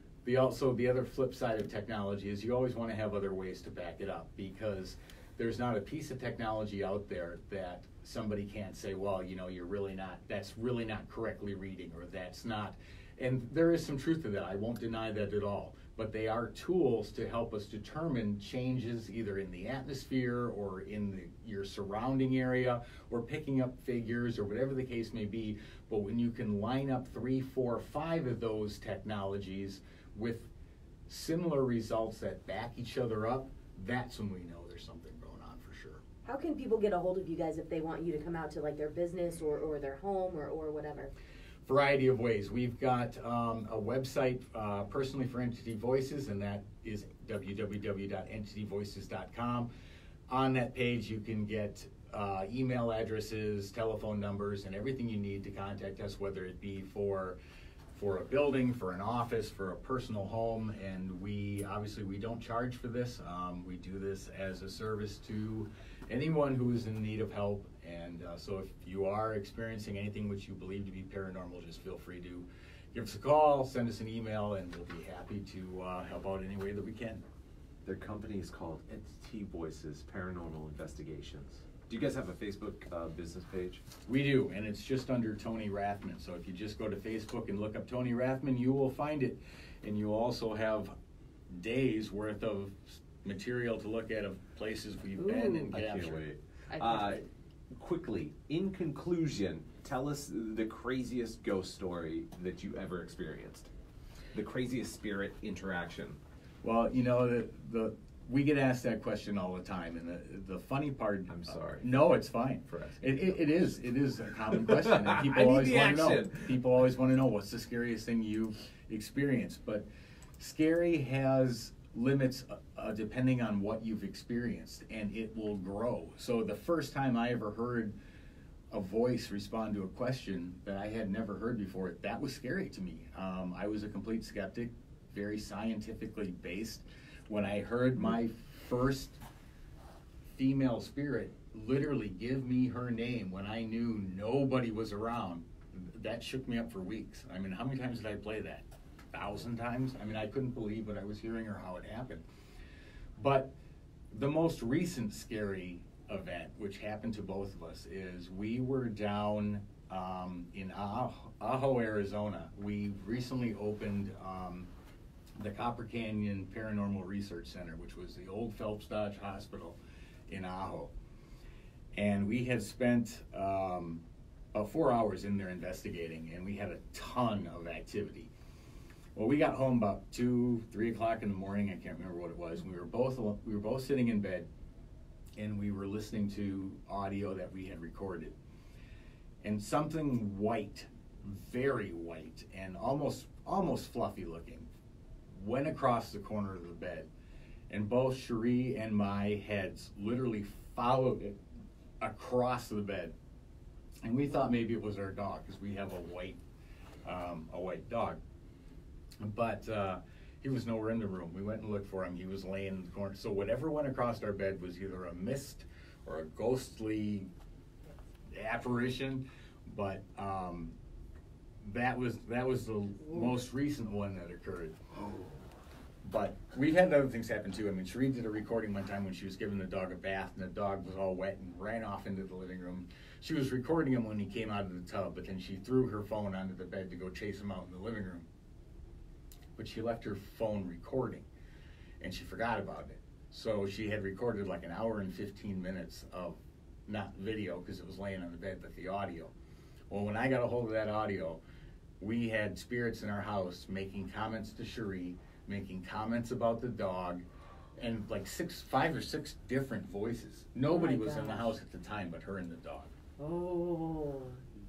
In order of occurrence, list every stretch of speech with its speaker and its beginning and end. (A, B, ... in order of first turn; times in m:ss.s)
0:00.2-0:30.5 A
0:31.1-0:36.0 A
0:36.2-0:41.1 B
0:41.6-0:49.7 A
0:50.3-0:57.4 A
0:57.9-1:17.2 A
1:17.8-1:23.8 C
1:24.1-1:30.9 A
1:31.5-1:36.2 A
1:35.2-1:35.7 B
1:35.7-1:43.7 C
1:36.7-1:37.2 B
1:44.3-1:46.2 C
1:46.6-1:59.9 A
1:51.3-1:52.0 C
1:52.7-1:53.8 C
1:54.5-1:56.6 C
2:00.4-2:08.0 A
2:08.7-2:19.2 A
2:20.3-2:32.2 A
2:33.2-2:33.6 A
2:34.1-2:44.7 A
2:45.4-2:50.9 A
2:52.0-2:58.3 A
2:59.2-3:04.5 A
3:05.4-3:08.4 A
3:09.4-3:14.7 A
3:15.3-3:17.1 A
3:17.7-3:21.4 A
3:22.0-3:23.1 A
3:24.0-3:26.4 A
3:27.0-3:28.2 A
3:29.2-3:37.3 A
3:38.3-3:40.8 A
3:41.6-3:44.8 A
3:43.0-3:43.4 B
3:46.0-3:58.3 A
3:59.6-4:01.3 A
4:02.0-4:09.3 A
4:09.9-4:11.4 A
4:12.0-4:17.2 A
4:17.8-4:22.9 A
4:20.7-4:21.5 B
4:23.2-4:24.4 B